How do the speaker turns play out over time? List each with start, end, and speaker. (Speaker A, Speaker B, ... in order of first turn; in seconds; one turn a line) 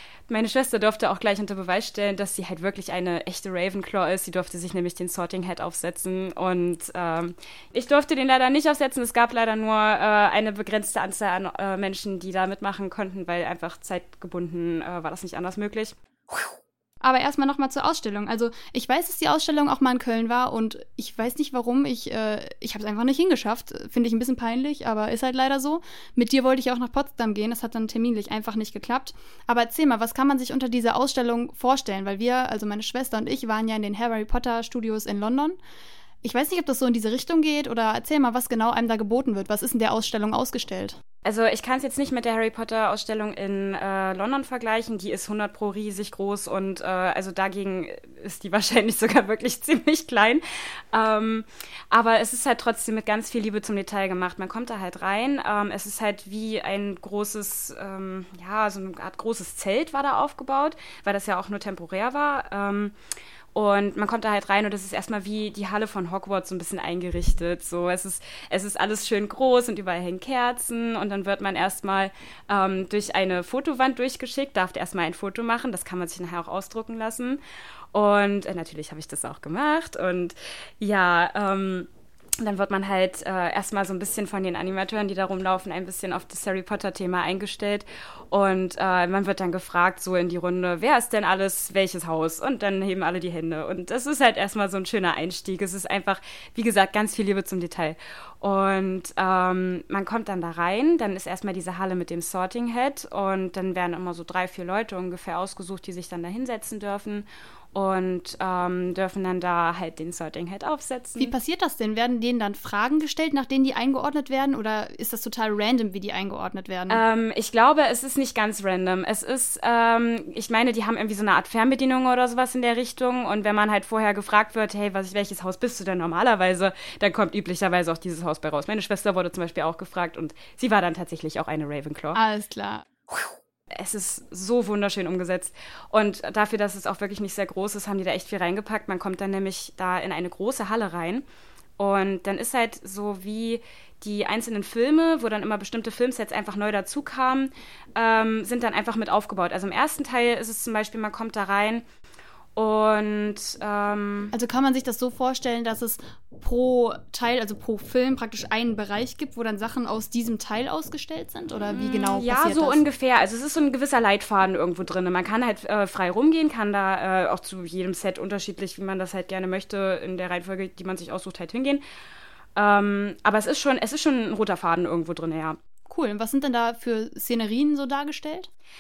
Speaker A: 0.3-15.9
Speaker B: 17.0-35.6
Speaker B: 36.2-41.0
Speaker A: 41.2-62.9
Speaker A: 63.5-77.4
Speaker A: 77.9-81.9
Speaker A: 82.4-111.3
Speaker B: 111.2-117.0
Speaker A: 116.9-132.2
Speaker B: 132.1-132.8
Speaker A: 133.7-141.2
Speaker A: 141.8-151.8
Speaker A: 152.6-154.3
Speaker B: 154.3-162.8
Speaker A: 161.7-171.8
Speaker A: 172.6-175.6
Speaker B: 175.9-178.5